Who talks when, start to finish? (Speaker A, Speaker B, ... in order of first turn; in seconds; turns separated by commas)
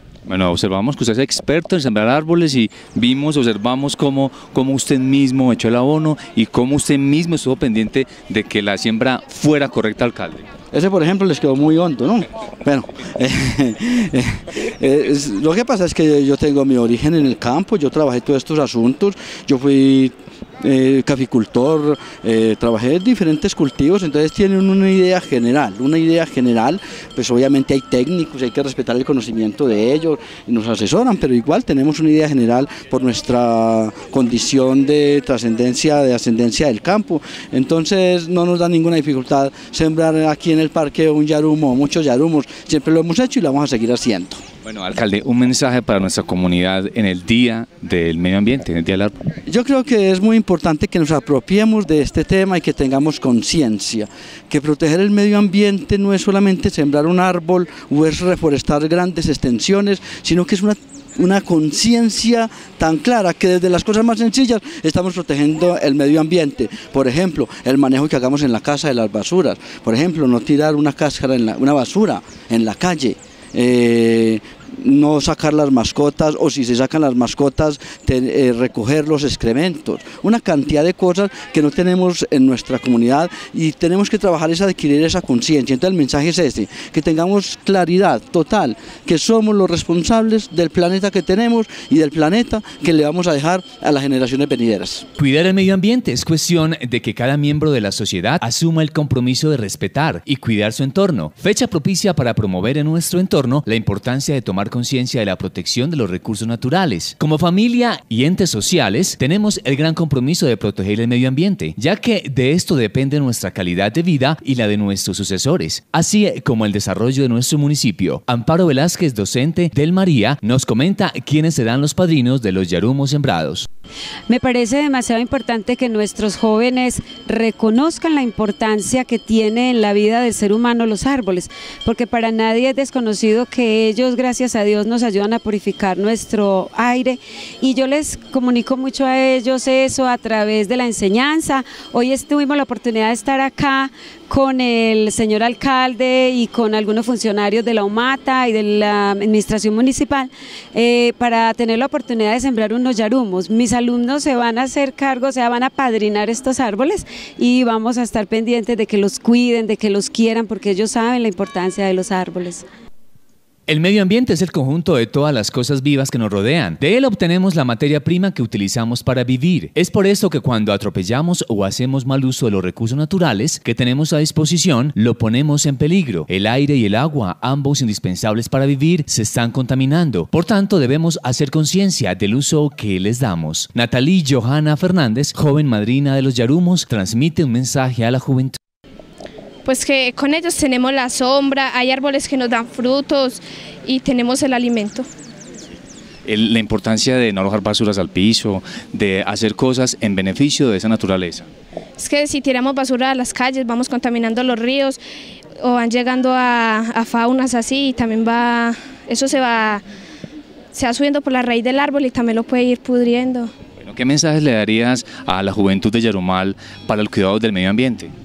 Speaker A: 0.3-10.4, Speaker B: 10.7-44.4, Speaker A: 44.6-49.1, Speaker B: 49.5-95.0, Speaker A: 95.2-123.7, Speaker C: 124.3-162.6, Speaker A: 163.7-188.6, Speaker D: 189.6-195.1, Speaker A: 196.2-201.4, Speaker D: 202.0-205.0, Speaker D: 205.6-209.8, Speaker D: 210.7-213.5, Speaker A: 213.8-218.1